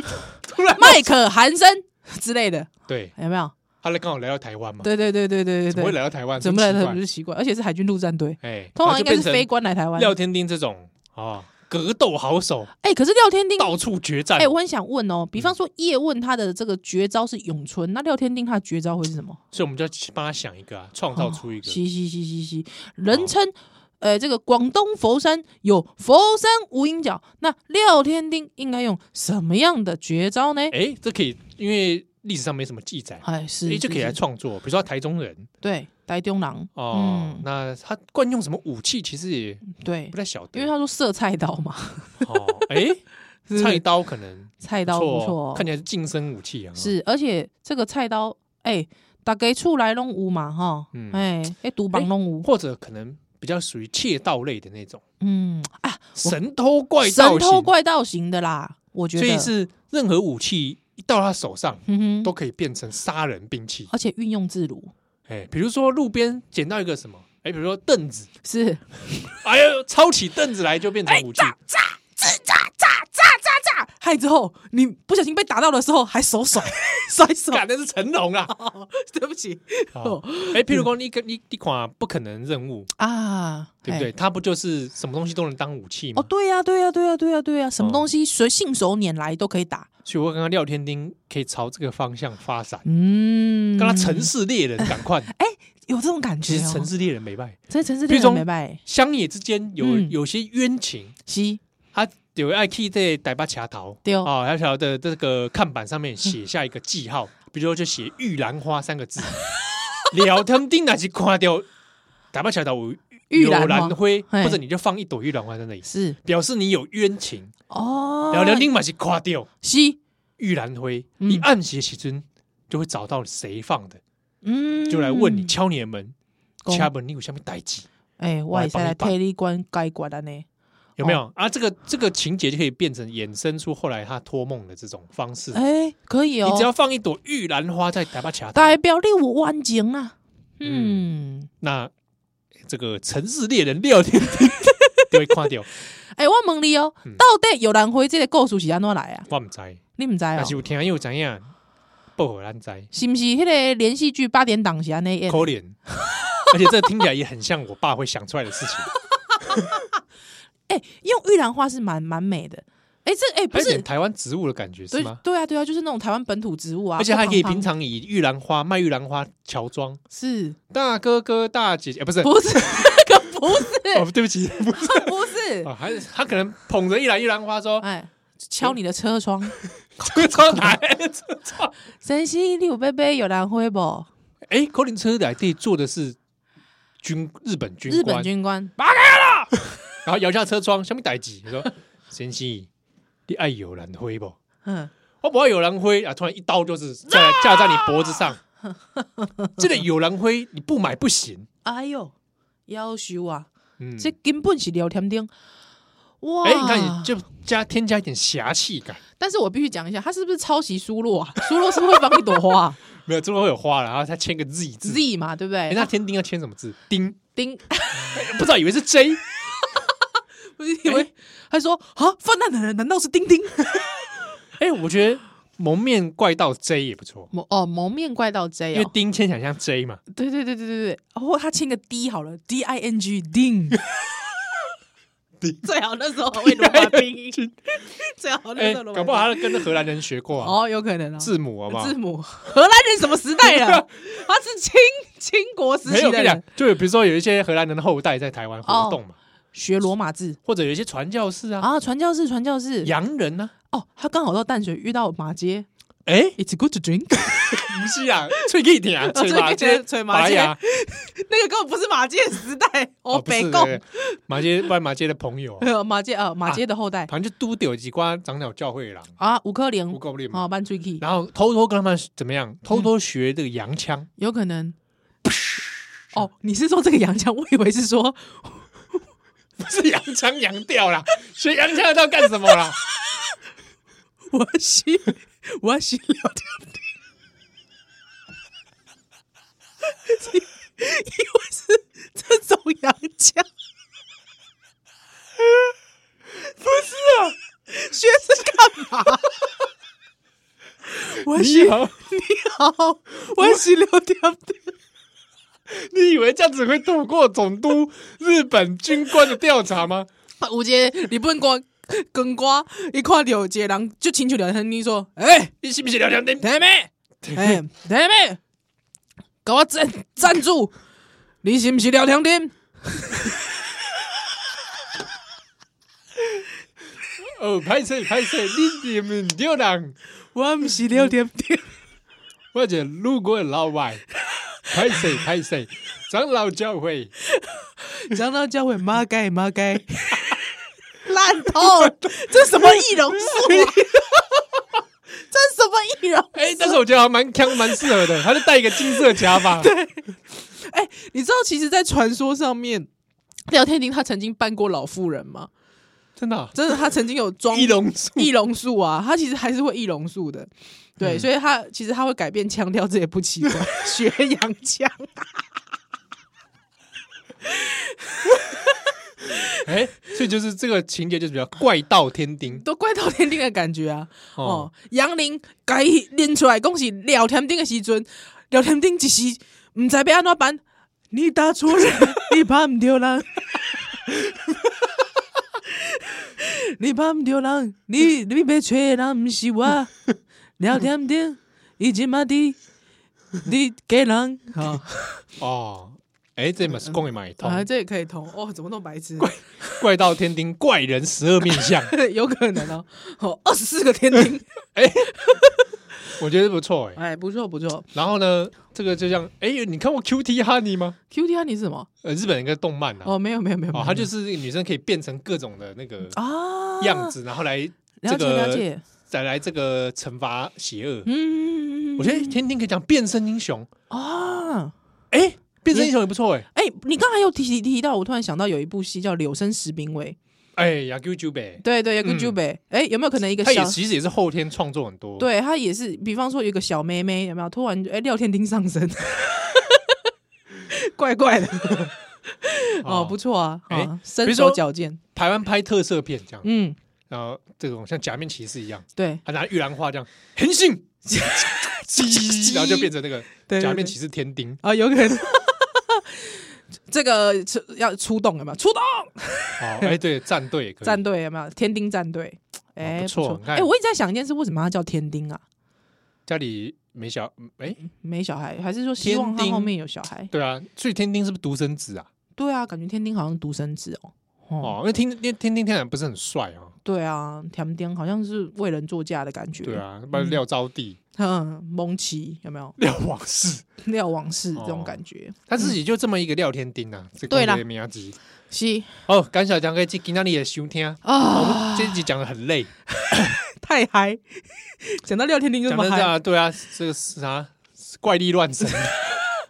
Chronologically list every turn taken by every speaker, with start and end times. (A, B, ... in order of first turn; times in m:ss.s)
0:00.4-0:01.1 A
0:00.7-0:03.5 B
0:02.9-0:03.2 A
0:03.8-0:04.9 A
0:04.8-0:10.2 B
0:05.7-0:07.0 A
0:08.4-0:12.7 A
0:12.8-0:13.8 B
0:13.6-0:14.5 A
0:14.4-0:19.4 B
0:19.5-0:21.8 A
0:21.2-0:30.8 B
0:30.7-0:35.5 A
0:33.2-0:34.2 B
0:35.6-0:37.4 B
0:36.8-0:40.7 A
0:39.7-0:42.6 B
0:42.2-0:46.9 A
0:43.5-0:43.8 B
0:44.6-0:45.7 B
0:46.8-0:52.5 B
0:50.9-0:51.2 A
0:51.9-0:55.0 A
0:55.2-0:56.4 B
0:56.2-0:57.7 A
0:57.0-0:59.5 B
0:59.2-1:03.9 A
1:01.9-1:02.3 B
1:03.9-1:04.9 B
1:05.3-1:08.3 A
1:08.4-1:09.4 B
1:09.4-1:11.6 A
1:11.1-1:17.6 B
1:17.5-1:18.5 A
1:18.5-1:20.9 B
1:20.0-1:22.9 A
1:23.0-1:24.1 B
1:23.8-1:26.3 A
1:26.2-1:29.9 B
1:27.8-1:28.1 A
1:30.0-1:32.8 A
1:32.8-1:34.3 B
1:33.8-1:35.3 A
1:34.8-1:36.9 B
1:36.4-1:41.2 A
1:37.7-1:38.8 B
1:39.8-1:40.2 B
1:41.3-1:41.6 B
1:41.9-1:49.4 A
1:50.1-1:51.7 A
1:52.3-1:57.5 A
1:53.3-1:54.6 B
1:55.8-1:56.2 B
1:57.7-1:58.7 B
1:58.3-1:59.5 A
1:59.6-2:00.0 B
2:00.4-2:04.0 A
2:01.2-2:01.5 B
2:04.4-2:05.5 B
2:04.9-2:06.2 A
2:06.6-2:06.9 B
2:06.7-2:07.9 A
2:08.2-2:10.5 B
2:08.5-2:09.2 A
2:11.0-2:15.6 A
2:15.5-2:16.7 B
2:16.4-2:18.8 A
2:18.6-2:21.5 B
2:20.6-2:21.0 A
2:21.6-2:21.9 A
2:22.7-2:25.7 A
2:24.4-2:25.4 B
2:26.1-2:29.3 B
2:29.3-2:29.8 A
2:30.0-2:30.6 B
2:30.4-2:31.5 A
2:32.2-2:32.9 A
2:32.9-2:36.5 B
2:35.3-2:35.8 A
2:36.4-2:38.9 A
2:40.7-2:43.9 B
2:43.5-2:45.2 A
2:44.9-2:47.7 B
2:47.0-2:50.0 A
2:50.1-2:50.6 B
2:50.7-2:53.0 A
2:52.2-2:54.1 B
2:53.7-2:57.8 A
2:54.7-2:55.7 B
2:57.8-3:00.8 B
3:00.0-3:01.7 A
3:02.0-3:04.1 B
3:04.5-3:06.2 A
3:07.0-3:08.3 A
3:07.9-3:09.7 B
3:10.0-3:12.7 A
3:13.3-3:14.4 A
3:14.6-3:14.9 B
3:15.2-3:18.4 A
3:17.2-3:18.2 B
3:19.0-3:19.6 B
3:19.6-3:21.5 A
3:21.6-3:22.1 B
3:22.7-3:25.3 B
3:23.8-3:24.1 A
3:26.2-3:27.1 B
3:26.4-3:29.0 A
3:29.2-3:32.8 B
3:31.6-3:35.0 A
3:34.8-3:35.9 B
3:35.7-3:37.2 A
3:37.4-3:38.3 B
3:37.9-3:39.2 A
3:39.6-3:39.9 B
3:40.6-3:43.8 B
3:44.6-3:47.3 A
3:47.3-3:48.9 B
3:48.7-3:50.0 A
3:50.1-3:53.8 B
3:55.4-3:55.7 A
3:55.6-3:59.7 B
3:56.3-3:57.5 A
3:58.6-4:00.6 A
4:00.4-4:06.4 B
4:01.2-4:02.0 A
4:03.4-4:03.9 A
4:05.9-4:09.2 A
4:08.6-4:09.0 B
4:09.5-4:10.4 B
4:10.4-4:11.7 A
4:11.6-4:12.9 B
4:12.8-4:13.5 A
4:13.7-4:15.7 B
4:16.1-4:16.4 A
4:16.4-4:17.7 B
4:17.2-4:20.6 A
4:19.0-4:24.2 B
4:23.1-4:25.7 A
4:25.6-4:27.1 B
4:26.5-4:29.1 A
4:29.2-4:31.0 B
4:29.9-4:30.5 A
4:31.0-4:34.1 A
4:34.2-4:34.8 B
4:36.1-4:38.7 B
4:39.6-4:42.8 A
4:42.5-4:43.2 B
4:44.3-4:46.8 B
4:50.0-4:53.5 B
4:56.6-4:59.4 B
5:01.0-5:04.7 B
5:01.3-5:01.9 A
5:05.7-5:10.1 A
5:10.4-5:15.5 B
5:15.6-5:16.5 A
5:16.4-5:18.4 B
5:17.2-5:17.6 A
5:19.4-5:20.8 B
5:21.4-5:23.4 B
5:27.3-5:30.0 A
5:30.3-5:31.8 B
5:32.5-5:34.1 A
5:34.7-5:37.1 A
5:37.3-5:40.5 B
5:41.0-5:44.4 B
5:41.6-5:43.8 A
5:45.1-5:46.8 B
5:46.3-5:49.7 A
5:47.5-5:48.0 B
5:48.9-5:52.9 B
5:53.5-5:55.5 B
5:56.2-5:56.9 A
5:56.6-6:05.4 B
5:57.5-5:58.3 A
6:01.0-6:01.3 A
6:07.5-6:08.7 B
6:09.3-6:09.6 B
6:09.6-6:12.6 A
6:12.5-6:24.3 B
6:14.4-6:14.7 A
6:25.7-6:29.9 B
6:30.6-6:32.6 B
6:33.4-6:35.2 B
6:35.4-6:37.7 A
6:36.8-6:39.8 B
6:39.2-6:41.9 A
6:41.5-6:45.7 B
6:44.8-6:45.1 A
6:46.2-6:47.0 A
6:47.0-6:47.9 B
6:47.9-6:51.0 A
6:51.1-6:51.9 B
6:52.0-6:53.2 A
6:53.0-6:54.1 B
6:53.7-6:56.2 A
6:56.1-6:57.2 B
6:56.8-7:01.1 A
6:58.0-6:58.8 B
7:01.1-7:02.4 B
7:02.0-7:03.7 A
7:03.9-7:04.7 B
7:05.1-7:06.5 A
7:06.5-7:10.2 B
7:10.6-7:12.4 A
7:11.6-7:13.8 B
7:13.4-7:15.3 A
7:15.2-7:20.0 B
7:20.6-7:25.0 B
7:22.8-7:23.2 A
7:23.7-7:24.6 A
7:25.2-7:26.5 A
7:26.4-7:26.8 B
7:27.1-7:34.6 A
7:29.0-7:29.2 B
7:31.1-7:32.9 B
7:33.5-7:34.0 B
7:34.6-7:40.0 B
7:39.6-7:41.0 A
7:40.8-7:45.4 B
7:42.8-7:43.7 A
7:46.3-7:47.8 A
7:47.8-7:50.3 B
7:49.0-7:49.7 A
7:50.3-7:52.1 A
7:52.4-7:54.8 B
7:54.6-7:56.8 A
7:56.8-8:00.4 B
7:59.6-8:01.0 A
8:01.2-8:02.8 B
8:02.8-8:03.7 A
8:03.8-8:05.7 B
8:04.6-8:08.2 A
8:07.3-8:07.6 B
8:08.5-8:08.9 B
8:09.1-8:13.4 A
8:11.0-8:12.0 B
8:13.0-8:16.1 B
8:15.7-8:19.2 A